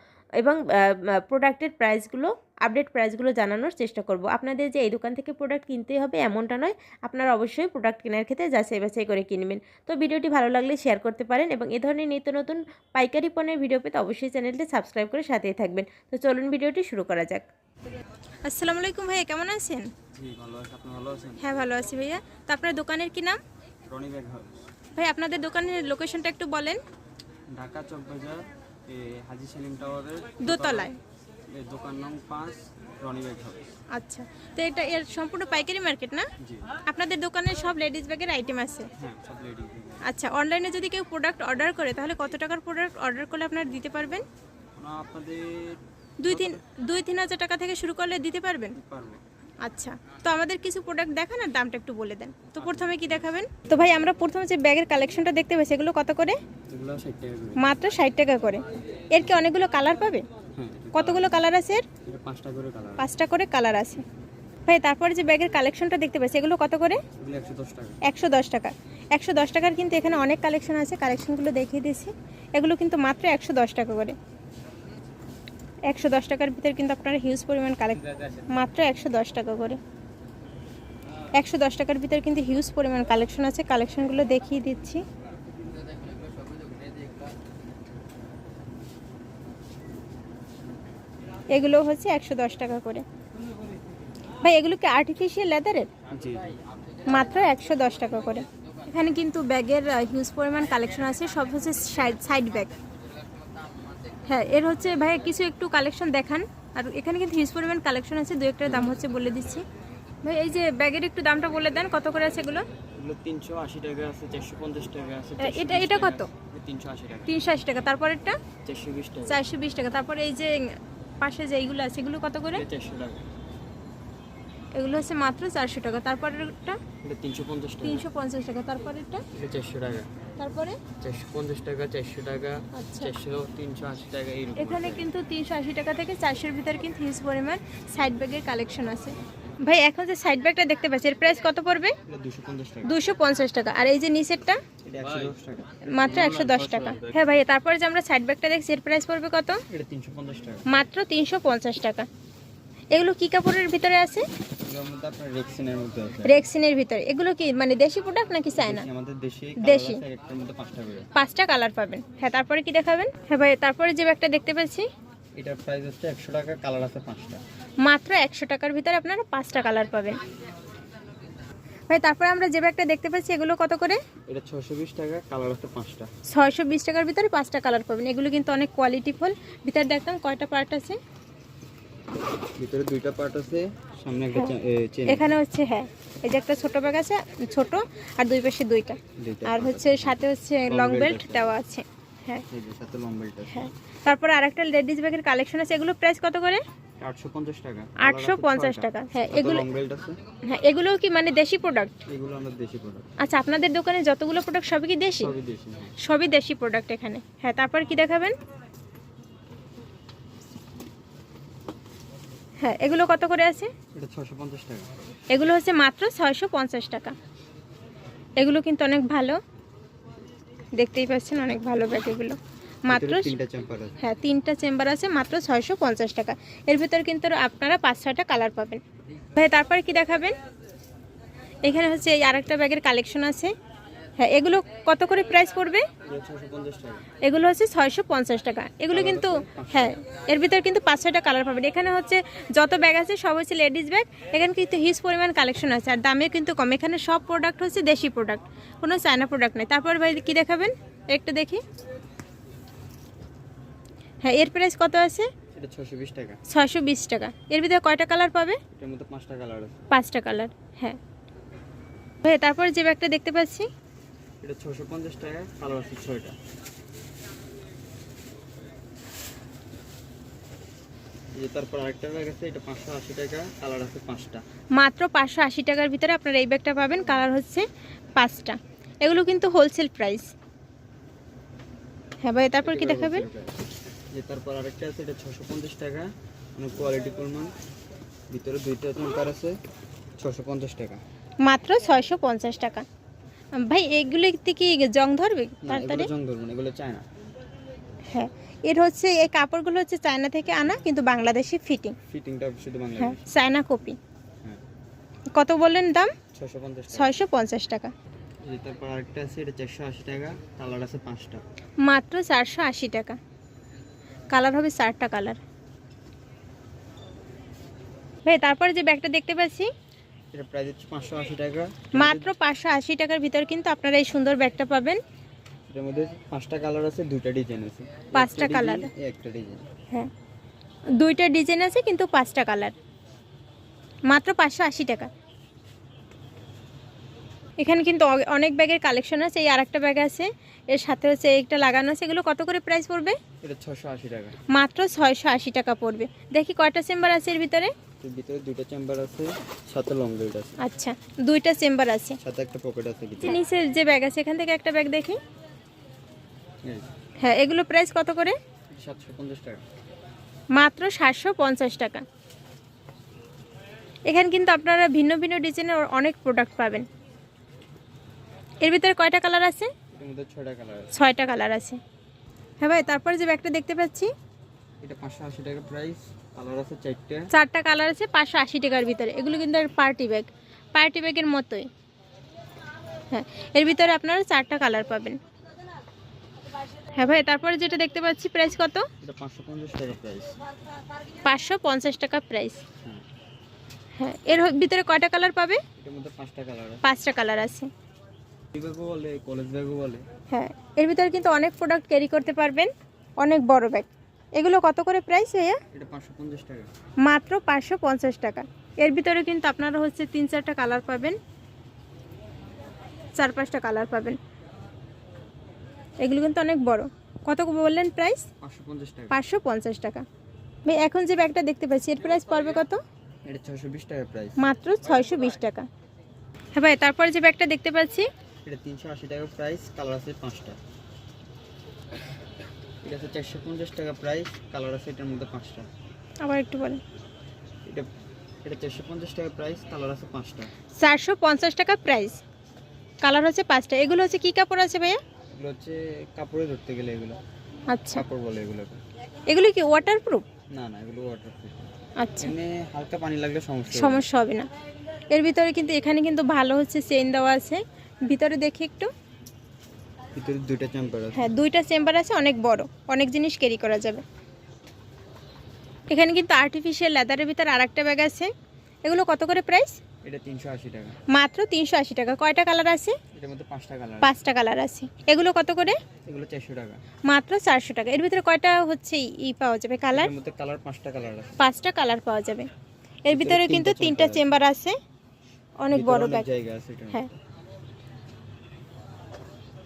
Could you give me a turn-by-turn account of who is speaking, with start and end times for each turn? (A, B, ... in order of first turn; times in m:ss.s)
0:00.4-0:17.4 A
0:18.4-0:19.9 B
0:20.1-0:21.6 C
0:21.4-0:23.4 B
0:23.8-0:24.6 C
0:25.0-0:26.8 B
0:27.5-0:30.9 C
0:30.4-0:31.0 B
0:31.5-0:33.6 C
0:33.9-0:36.3 B
0:36.4-0:36.7 C
0:36.8-0:38.9 B
0:39.0-0:40.0 C
0:40.0-0:44.2 B
0:44.8-0:46.6 C
0:46.2-0:48.8 B
0:48.7-0:49.2 C
0:49.6-0:56.4 B
0:52.6-0:53.3 C
0:56.7-0:57.6 C
0:57.6-1:00.2 B
0:59.2-0:59.5 C
1:00.5-1:01.4 C
1:00.9-1:01.9 B
1:02.0-1:03.1 C
1:03.0-1:04.0 B
1:04.7-1:07.0 B
1:07.2-1:08.0 C
1:08.0-1:14.2 B
1:15.9-1:19.8 B
1:21.4-1:25.0 B
1:31.5-1:33.0 B
1:34.4-1:35.9 B
1:36.1-1:36.5 C
1:37.0-1:42.7 B
1:44.3-1:49.6 B
1:48.6-1:49.0 C
1:50.2-1:52.7 B
1:52.9-1:57.3 C
1:55.4-1:56.3 B
1:57.3-1:58.4 B
1:58.6-1:59.4 C
1:59.3-2:02.6 B
2:02.5-2:03.3 C
2:04.7-2:06.8 B
2:07.0-2:08.1 C
2:07.8-2:09.2 B
2:09.3-2:10.1 C
2:10.4-2:10.8 B
2:11.0-2:15.1 C
2:12.7-2:13.1 B
2:14.6-2:21.9 B
2:22.0-2:22.9 C
2:22.8-2:24.6 B
2:24.8-2:26.4 C
2:25.9-2:29.6 B
2:29.7-2:30.6 C
2:30.7-2:32.1 B
2:32.9-2:34.3 B
2:34.6-2:36.4 C
2:36.2-2:38.9 B
2:38.6-2:41.1 C
2:39.6-2:40.0 B
2:41.1-2:44.8 B
2:45.4-2:47.4 C
2:47.8-2:50.2 B
2:51.9-2:54.0 B
2:54.3-2:56.1 C
2:56.3-3:01.0 B
3:02.6-3:05.3 C
3:05.1-3:12.4 B
3:09.2-3:11.6 C
3:12.5-3:13.7 C
3:13.5-3:16.6 B
3:17.0-3:20.2 C
3:18.0-3:19.6 B
3:20.4-3:22.0 B
3:22.0-3:23.1 C
3:23.2-3:25.3 B
3:25.2-3:25.9 C
3:26.0-3:28.4 B
3:32.6-3:33.7 B
3:33.9-3:34.9 C
3:35.3-3:37.2 B
3:38.4-3:39.4 B
3:40.8-3:43.3 B
3:42.9-3:44.0 C
3:44.0-3:48.8 B
3:49.3-3:50.4 B
3:51.6-3:53.5 B
3:54.2-3:55.9 B
3:56.0-3:57.1 C
3:57.2-4:11.6 B
3:58.9-4:00.0 C
4:14.2-4:15.3 B
4:15.5-4:16.4 C
4:16.5-4:18.6 B
4:18.7-4:19.8 C
4:19.9-4:21.0 B
4:22.2-4:23.7 B
4:24.4-4:26.4 C
4:31.3-4:34.4 C
4:34.8-4:37.6 B
4:38.2-4:40.3 B
4:42.2-4:43.2 B
4:42.6-4:43.6 C
4:44.1-4:47.5 C
4:48.3-4:49.6 C
4:50.2-4:51.0 C
4:51.4-4:52.8 B
4:53.6-4:56.1 B
4:55.6-4:57.0 C
4:58.1-5:02.0 B
5:02.1-5:03.2 C
5:03.0-5:04.0 B
5:05.3-5:06.1 B
5:06.3-5:07.2 C
5:06.9-5:07.9 B
5:08.4-5:11.4 C
5:11.8-5:13.2 B
5:14.3-5:15.4 B
5:18.2-5:19.7 B
5:20.3-5:22.3 C
5:21.9-5:25.0 B
5:25.7-5:29.6 C
5:28.1-5:28.9 B
5:31.0-5:32.7 B
5:34.1-5:35.1 B
5:37.6-5:43.2 B
5:43.4-5:44.4 C
5:44.5-5:47.7 B
5:48.0-5:50.6 C
5:50.6-5:52.2 B
5:52.2-5:53.4 C
5:53.2-5:55.2 B
5:57.2-5:58.4 B
5:58.7-5:59.6 C
6:00.6-6:02.0 B
6:04.1-6:06.8 B
6:08.6-6:09.7 B
6:09.9-6:10.9 C
6:10.9-6:11.8 B
6:12.6-6:14.1 B
6:14.8-6:17.3 C
6:17.3-6:21.7 B
6:23.1-6:25.2 B
6:26.9-6:28.8 B
6:29.0-6:30.4 C
6:31.2-6:32.6 B
6:34.0-6:35.6 B
6:35.8-6:36.8 C
6:36.8-6:37.7 B
6:38.5-6:40.0 C
6:40.3-6:45.6 B
6:45.7-6:46.7 C
6:47.0-6:51.2 B
6:53.2-6:54.2 B
6:56.0-6:58.3 B
6:58.4-6:59.2 C
6:59.1-7:00.0 B
7:00.6-7:02.8 B
7:03.2-7:04.4 C
7:04.4-7:05.7 B
7:06.6-7:08.1 B
7:08.4-7:10.6 C
7:12.8-7:15.7 C
7:16.2-7:16.8 B
7:18.4-7:20.5 C
7:20.8-7:22.2 B
7:23.0-7:25.0 B
7:25.3-7:27.2 C
7:27.7-7:28.0 B
7:27.9-7:28.8 C
7:29.3-7:30.2 B
7:30.5-7:31.7 C
7:32.0-7:32.3 B
7:32.2-7:34.1 C
7:33.7-7:34.5 B
7:35.1-7:38.9 B
7:40.1-7:41.3 C
7:41.1-7:44.0 B
7:45.9-7:48.3 B
7:48.8-7:49.8 B
7:50.0-7:51.0 C
7:51.1-7:53.0 B
7:53.1-7:54.1 C
7:54.0-7:55.8 B
7:56.0-7:56.8 C
7:57.1-8:00.1 B
7:59.9-8:01.4 C
8:01.4-8:02.5 B
8:03.0-8:04.8 B
8:03.1-8:04.2 C
8:05.6-8:06.3 B
8:05.7-8:07.1 C